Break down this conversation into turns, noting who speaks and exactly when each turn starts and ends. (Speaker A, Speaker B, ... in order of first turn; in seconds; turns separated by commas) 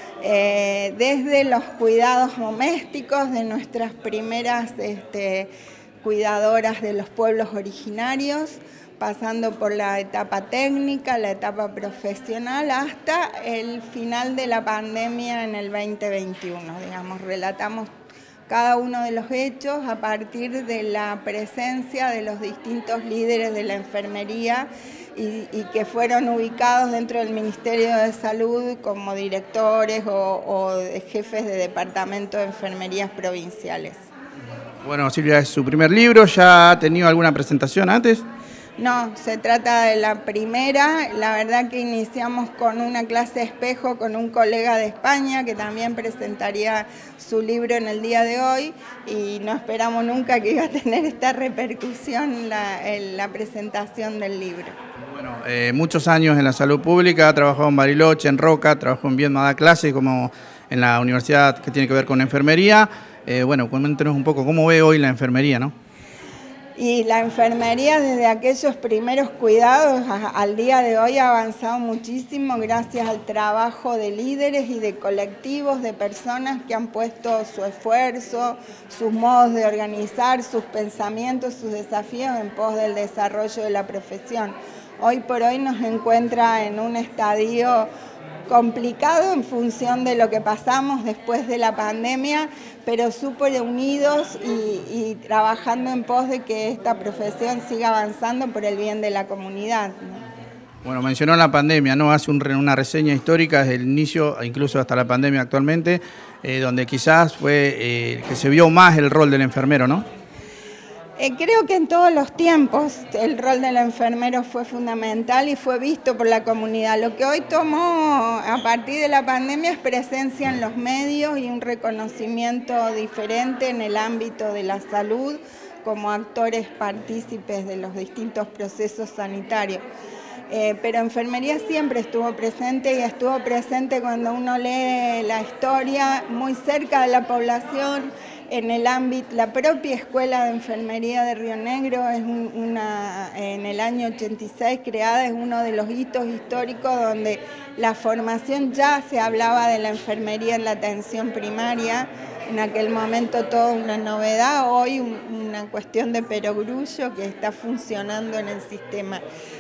Speaker A: 0.2-5.5, Speaker A: 6.0-17.9, Speaker A: 18.5-34.0, Speaker B: 34.8-38.2, Speaker A: 38.8-54.8, Speaker B: 55.1-65.7, Speaker A: 66.8-87.9, Speaker A: 88.5-100.2, Speaker B: 100.8-110.0, Speaker A: 111.2-129.8, Speaker A: 130.5-159.2